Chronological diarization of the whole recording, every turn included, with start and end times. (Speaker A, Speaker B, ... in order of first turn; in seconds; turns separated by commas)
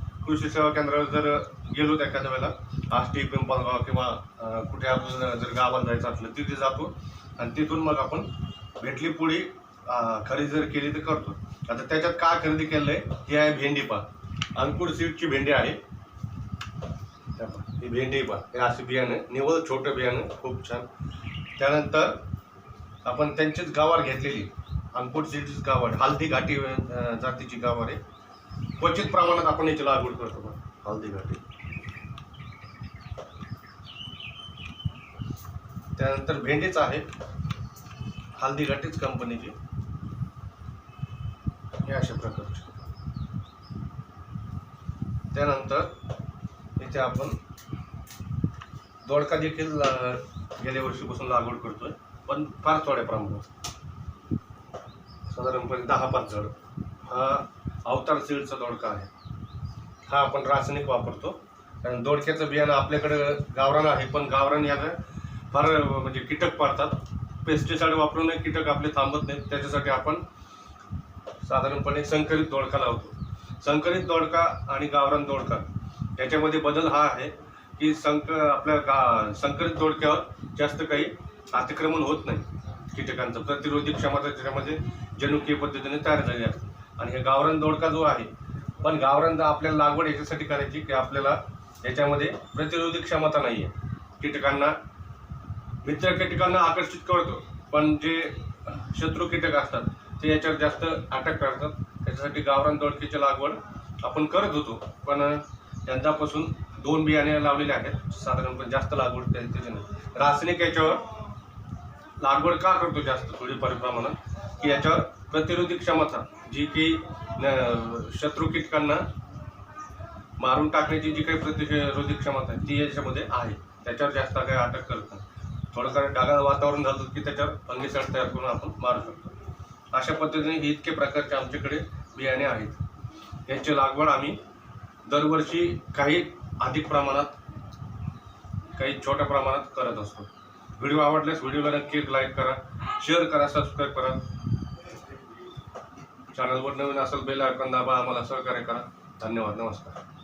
Speaker A: 0.2-15.8, Speaker A: 17.4-20.9, Speaker A: 21.6-22.2, Speaker A: 23.0-28.0, Speaker A: 28.8-31.4, Speaker A: 36.0-37.0, Speaker A: 38.4-39.5, Speaker A: 41.8-42.7, Speaker A: 45.3-45.9, Speaker A: 46.8-47.4, Speaker A: 49.0-53.5, Speaker A: 55.3-59.1, Speaker A: 60.1-65.0, Speaker A: 65.5-70.2, Speaker A: 71.4-88.3, Speaker A: 88.8-94.8, Speaker A: 95.8-111.1, Speaker A: 112.2-119.1, Speaker A: 120.4-129.4, Speaker A: 129.9-132.8, Speaker A: 133.5-134.4, Speaker A: 135.0-137.4, Speaker A: 138.8-144.2, Speaker A: 146.3-150.0